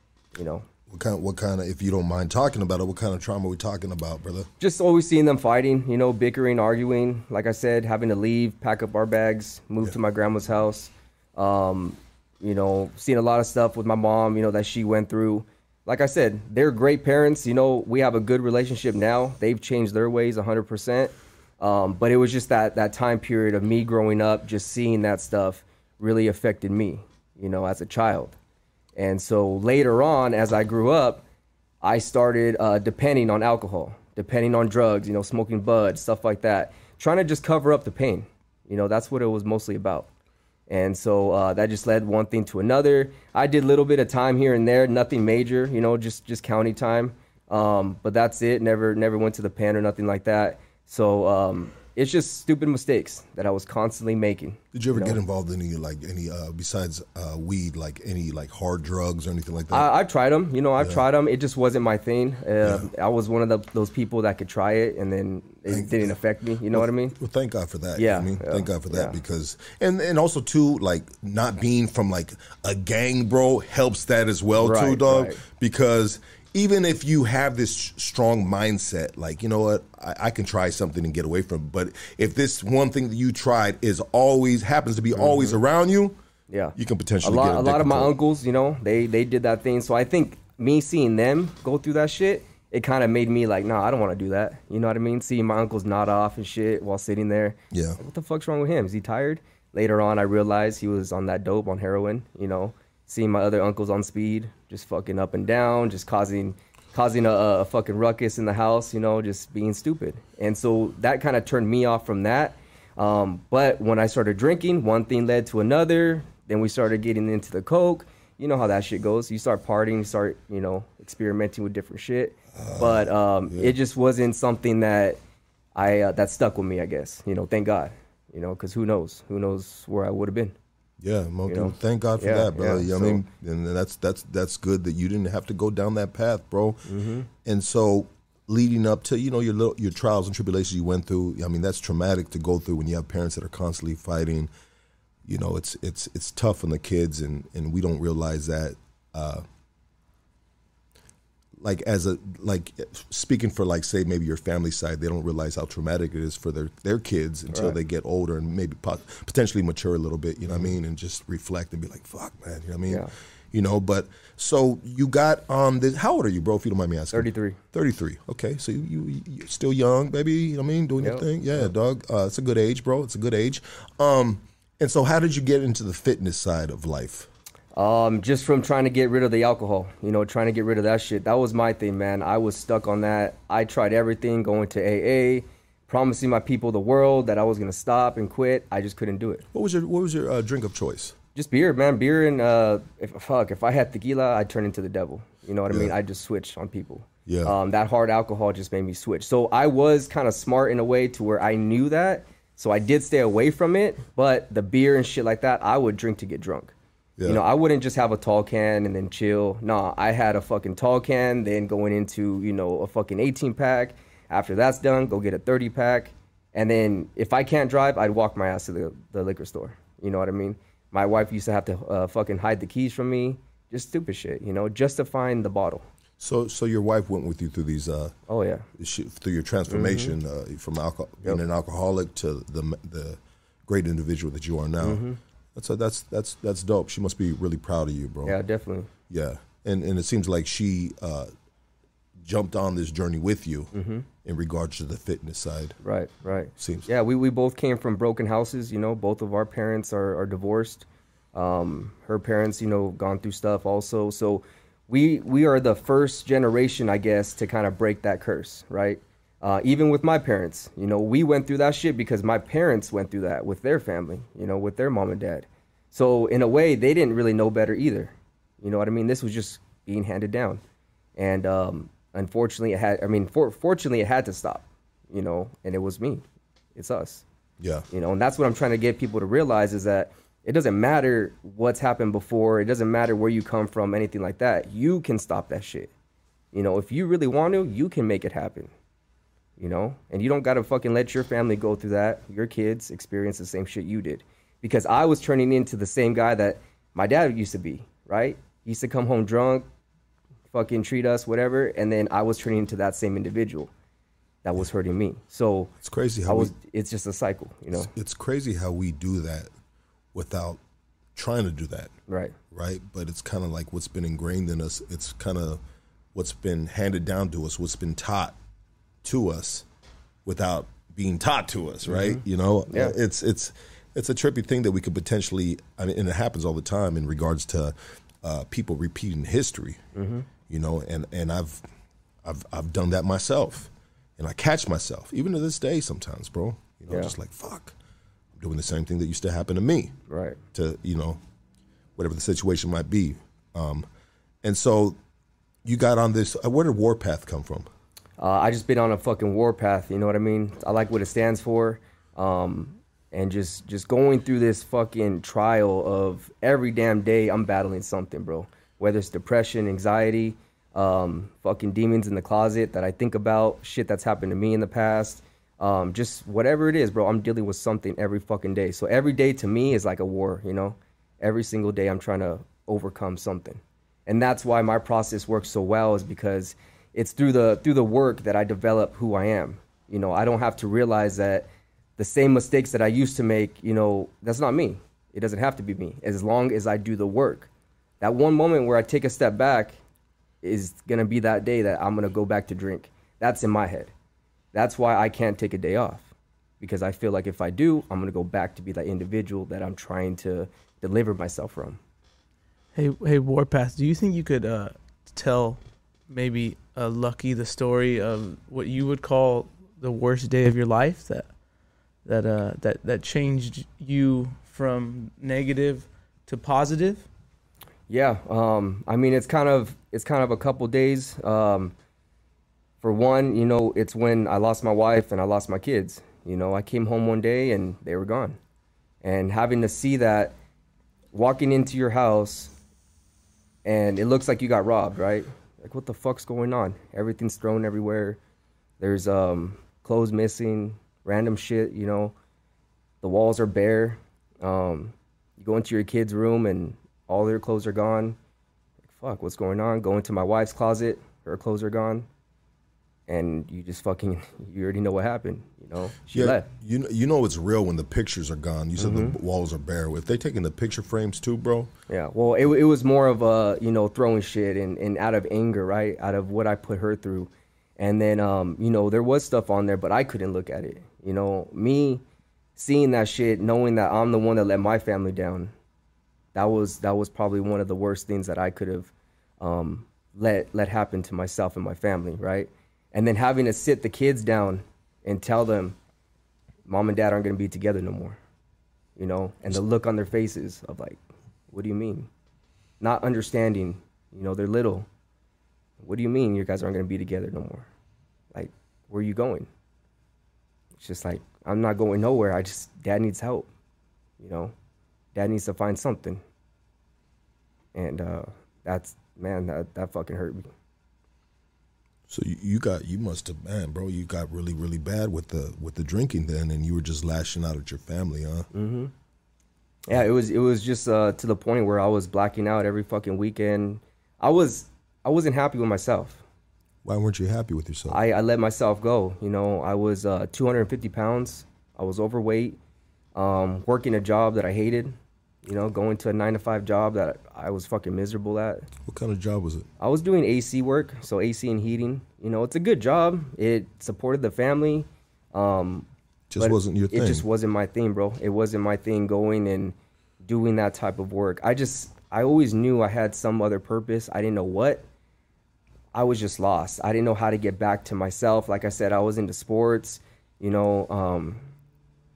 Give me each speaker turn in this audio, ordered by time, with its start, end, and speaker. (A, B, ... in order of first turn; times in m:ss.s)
0:00.4-0:00.6 A
0:00.9-0:04.5 B
0:04.6-0:28.4 A
0:29.0-0:31.2 A
0:31.8-0:40.1 A
0:40.7-0:55.2 A
0:54.7-0:59.9 B
0:59.7-1:07.2 A
1:00.8-1:01.0 B
1:02.6-1:02.9 B
1:05.7-1:06.2 B
1:06.7-1:26.2 B
1:08.0-1:09.2 A
1:14.6-1:15.4 A
1:25.1-1:25.6 A
1:26.5-2:05.2 A
1:26.8-1:28.2 B
1:37.7-1:38.0 B
2:02.6-2:03.8 B
2:05.8-2:10.6 A
2:11.0-2:16.8 B
2:11.5-2:13.2 A
2:16.9-2:17.3 A
2:17.4-2:24.5 B
2:25.2-2:29.4 B
2:31.6-2:57.3 B
2:47.1-2:47.6 A
2:51.0-2:51.7 A
2:57.8-3:09.4 A
3:09.5-3:11.2 B
3:11.4-3:26.7 A
3:15.7-3:15.9 B
3:17.3-3:17.6 B
3:27.2-3:27.4 B
3:27.3-3:45.8 A
3:46.2-3:48.2 B
3:48.3-3:48.7 A
3:48.8-3:58.4 B
3:49.7-3:50.2 A
3:54.8-3:55.2 A
3:58.2-3:58.9 A
3:59.1-4:01.3 B
4:02.2-4:05.8 B
4:03.7-4:04.0 A
4:05.8-4:30.6 A
4:06.6-4:06.9 B
4:31.2-4:36.2 A
4:36.8-4:37.2 A
4:37.6-4:37.8 B
4:37.9-4:45.9 A
4:46.5-4:48.7 A
4:49.6-4:59.7 A
5:00.5-5:03.7 A
5:04.4-5:05.7 A
5:05.8-5:06.6 B
5:06.3-5:07.9 A
5:07.8-5:09.5 B
5:10.1-5:10.6 B
5:11.2-5:11.9 B
5:12.1-5:12.4 A
5:12.5-5:15.6 B
5:16.1-5:18.4 B
5:19.0-5:19.6 B
5:20.2-5:29.8 B
5:21.8-5:23.0 A
5:30.0-5:30.3 A
5:30.4-5:31.6 B
5:32.2-5:37.8 B
5:38.4-5:39.9 B
5:40.1-5:40.4 A
5:40.5-5:41.2 B
5:42.0-5:43.9 B
5:44.4-5:45.0 B
5:45.6-5:47.7 B
5:48.2-6:27.5 A
6:28.0-6:29.8 A
6:30.4-6:33.9 A
6:34.5-6:36.1 A
6:36.6-6:41.8 A
6:42.8-6:51.3 C
6:52.0-6:57.0 C
6:57.9-7:01.7 A
7:02.8-7:08.4 A
7:09.0-7:10.4 A
7:11.1-7:12.5 A
7:13.6-7:18.2 A
7:18.8-7:22.1 A
7:23.0-7:28.2 A
7:28.9-7:32.1 A
7:33.1-7:36.5 A
7:36.1-7:41.7 B
7:38.8-7:39.2 A
7:41.9-7:52.0 A
7:52.6-7:55.5 A
7:56.3-8:05.8 A
8:06.7-8:08.2 A
8:09.0-8:12.1 A
8:12.8-8:14.9 A
8:15.8-8:17.7 A
8:18.3-8:19.5 A
8:20.8-8:23.5 A
8:24.2-8:24.5 A
8:25.1-8:26.2 A
8:27.7-8:30.5 A
8:32.1-8:38.5 B
8:38.5-8:38.9 A
8:39.9-8:46.2 A
8:46.8-8:48.0 B
8:47.9-8:52.6 A
8:53.2-8:58.7 A
8:58.8-8:59.7 B
8:59.8-9:05.9 A
9:06.3-9:07.2 B
9:06.4-9:14.8 A
9:15.9-9:21.5 A